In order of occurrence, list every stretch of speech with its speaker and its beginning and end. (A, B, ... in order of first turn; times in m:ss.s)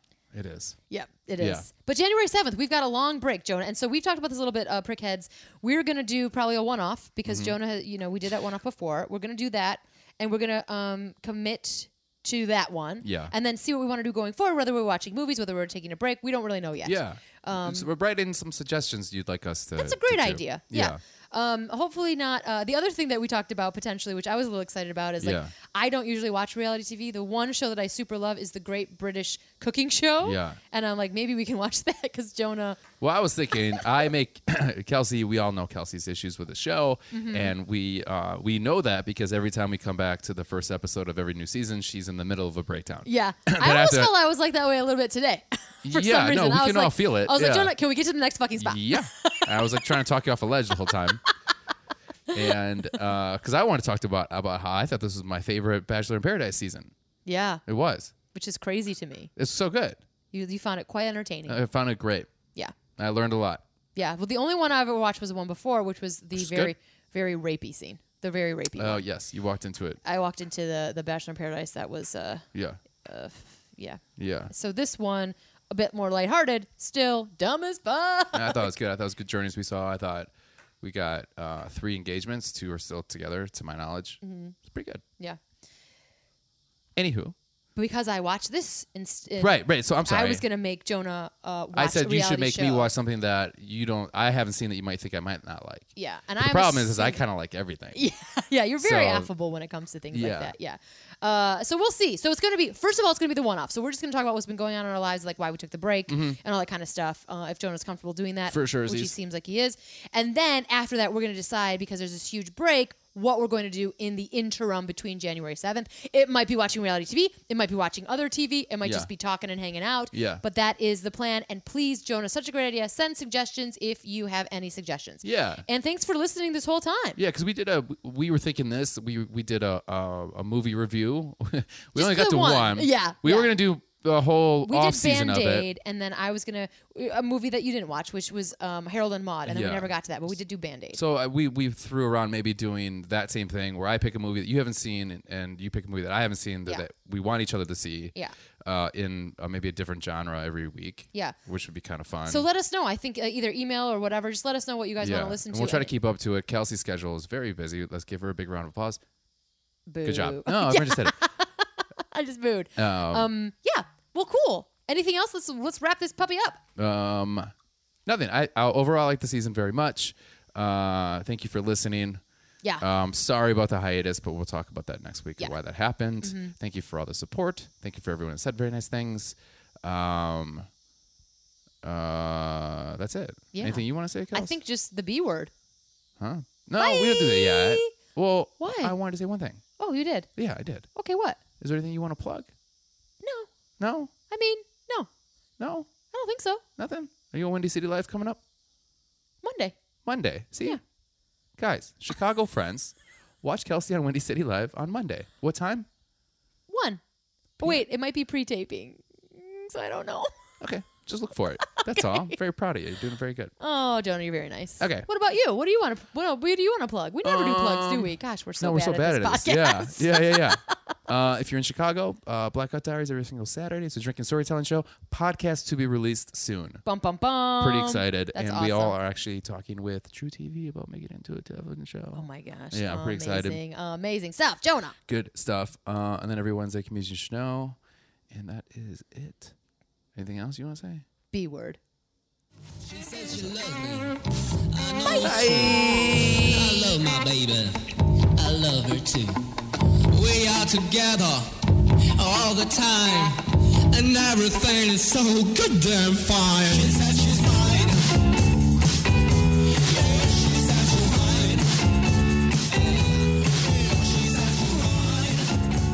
0:00.3-0:00.8 A
0:00.9-0:17.9 B
0:01.4-0:01.7 A
0:07.3-0:07.6 A
0:13.0-0:13.3 A
0:16.8-0:21.0 A
0:19.8-0:32.8 B
0:25.2-0:25.5 A
0:30.2-0:30.6 A
0:33.0-0:44.1 A
0:37.1-0:37.5 B
0:43.0-0:49.9 B
0:45.8-0:47.7 A
0:48.6-0:51.2 A
0:52.3-0:56.9 A
0:57.3-0:57.6 B
0:57.7-0:58.1 A
0:58.3-0:59.3 B
0:59.4-1:00.0 A
1:00.3-1:01.6 B
1:01.5-1:02.3 A
1:03.0-1:03.6 A
1:04.0-1:09.0 B
1:06.4-1:06.7 A
1:08.8-1:10.0 A
1:10.0-1:12.5 B
1:12.5-1:12.8 A
1:13.0-1:18.7 B
1:14.2-1:14.5 A
1:18.3-1:25.0 A
1:24.2-1:24.6 B
1:27.0-1:27.4 A
1:27.8-1:32.9 B
1:29.4-1:30.4 A
1:31.8-1:38.0 A
1:36.0-1:37.2 B
1:37.9-2:07.2 B
1:38.8-1:39.3 A
1:40.1-1:40.5 A
1:46.1-1:46.4 A
1:48.5-1:49.1 A
1:58.8-1:59.1 A
2:00.1-2:00.4 A
2:05.2-2:05.6 A
2:07.2-2:15.7 A
2:12.0-2:13.5 B
2:14.6-2:21.0 B
2:19.5-2:19.9 A
2:21.0-2:32.4 A
2:32.3-2:35.9 B
2:35.0-2:39.0 A
2:39.9-2:46.6 B
2:40.0-2:41.2 A
2:42.8-2:43.3 A
2:46.8-2:47.5 A
2:48.1-2:52.2 A
2:52.8-3:00.7 A
2:56.2-2:56.5 B
3:01.8-3:04.6 A
3:03.5-3:05.5 B
3:06.2-3:09.6 A
3:06.8-3:08.0 B
3:08.6-3:09.0 B
3:09.8-3:10.3 B
3:10.4-3:10.9 A
3:11.0-3:11.4 B
3:11.6-3:12.5 A
3:13.2-3:13.5 B
3:13.8-3:14.1 A
3:14.3-3:15.1 B
3:15.6-3:15.9 A
3:16.1-3:16.6 B
3:16.8-3:18.4 A
3:19.4-3:19.8 B
3:20.0-3:20.8 A
3:21.6-3:25.9 A
3:26.7-3:27.0 B
3:27.6-3:30.3 B
3:30.6-3:33.5 A
3:31.7-3:32.3 B
3:33.6-3:41.0 B
3:34.8-3:35.1 A
3:37.2-3:46.8 A
3:46.8-3:49.0 B
3:47.6-3:53.6 A
3:52.1-3:55.0 B
3:55.1-3:57.8 A
3:58.3-3:59.5 A
4:00.2-4:01.0 A
4:01.3-4:01.8 B
4:02.8-4:09.4 C
4:05.1-4:06.5 B
4:05.1-4:06.6 A
4:10.1-4:11.6 C
4:12.2-4:18.1 C
4:19.7-4:21.8 C
4:22.7-4:25.6 C